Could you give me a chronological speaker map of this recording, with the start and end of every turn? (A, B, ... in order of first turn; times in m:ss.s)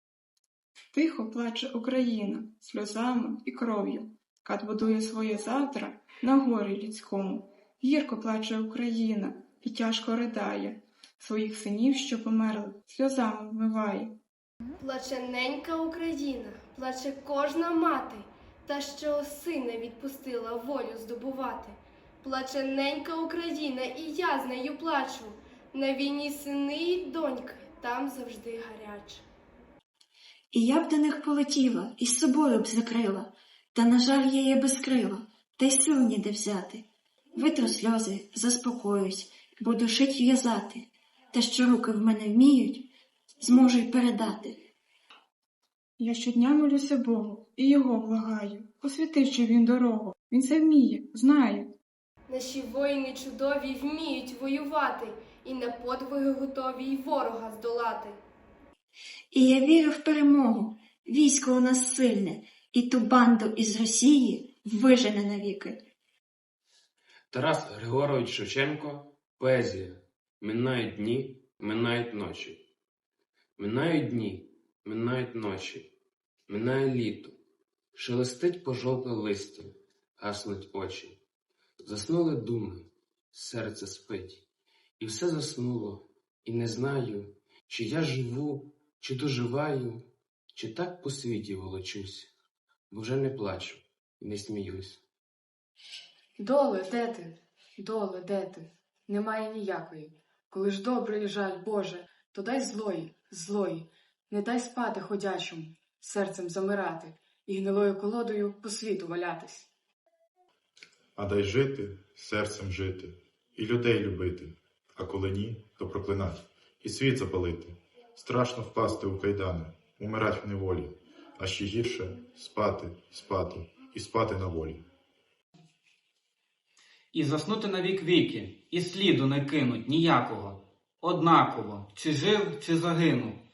0:00.9-0:14.1 A
0:14.8-0:29.2 B
0:30.5-0:42.9 C
0:43.4-0:44.6 C
0:46.0-0:51.7 A
0:52.3-0:58.2 B
0:59.3-1:05.8 C
1:07.3-1:12.6 D
1:13.6-1:15.9 D
1:16.5-1:17.4 D
1:18.0-1:21.2 D
1:21.8-1:24.4 D
1:25.0-1:32.3 D
1:32.9-1:35.0 D
1:36.4-1:49.7 E
1:51.2-2:04.8 F
2:07.1-2:13.4 G